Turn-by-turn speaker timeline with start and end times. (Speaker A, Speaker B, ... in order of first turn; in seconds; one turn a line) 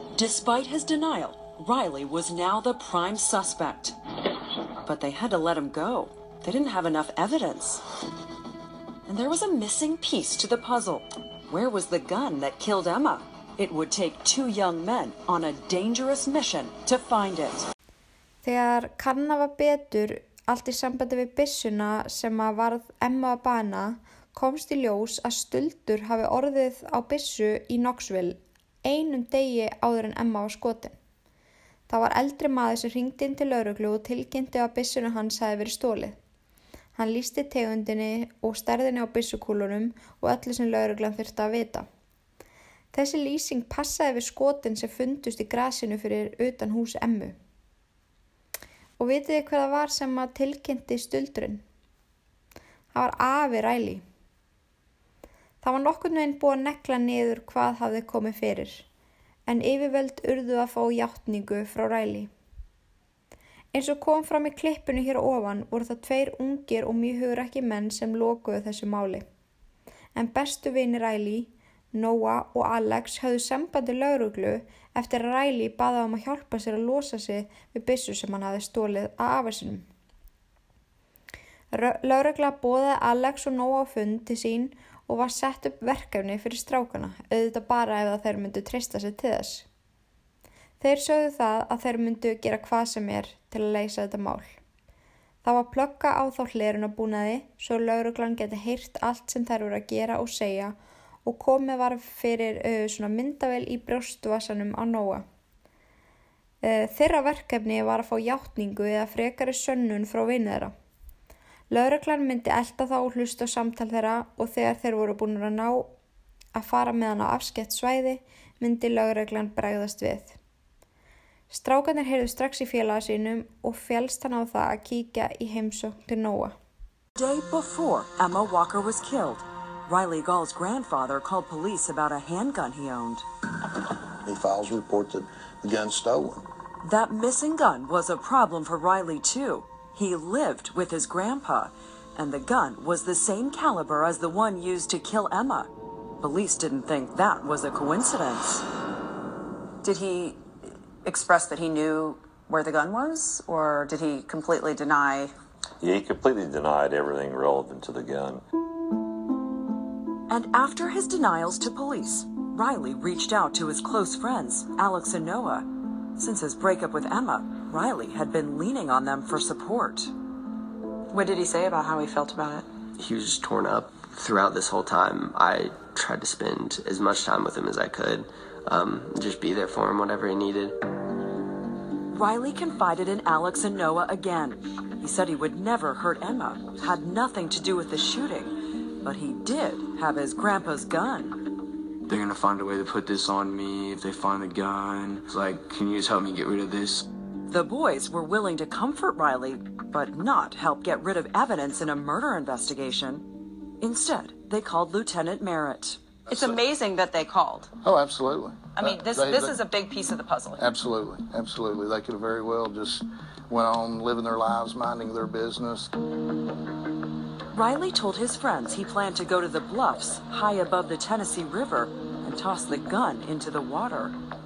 Speaker A: 0.1-4.0
Speaker A: 4.8-7.8
Speaker A: 9.1-17.7
Speaker B: 18.4-30.9
Speaker B: 31.9-36.2
Speaker B: 37.0-41.9
Speaker B: 42.9-47.3
Speaker B: 49.0-51.6
Speaker B: 52.9-54.0
Speaker B: 55.6-58.9
Speaker B: 59.5-62.3
Speaker B: 63.7-69.2
Speaker B: 70.1-79.9
Speaker B: 81.7-89.7
Speaker B: 90.8-94.6
Speaker B: 95.4-105.2
Speaker B: 106.6-110.7
Speaker B: 111.7-115.9
Speaker B: 116.5-120.4
Speaker B: 121.5-126.5
Speaker A: 127.2-133.2
Speaker C: 134.2-136.4
Speaker A: 136.8-148.7
Speaker D: 149.8-150.4
Speaker D: 151.0-155.3
Speaker E: 155.8-158.4
Speaker A: 160.3-170.1
Speaker D: 171.1-172.7
Speaker F: 173.0-180.8
Speaker A: 182.1-191.4
Speaker G: 192.1-197.1
Speaker A: 197.5-203.3
Speaker A: 203.8-206.0
Speaker C: 206.3-206.6
Speaker D: 206.3-207.7
Speaker C: 207.8-209.6
Speaker D: 208.8-210.6
Speaker C: 210.6-215.9
Speaker A: 217.5-224.1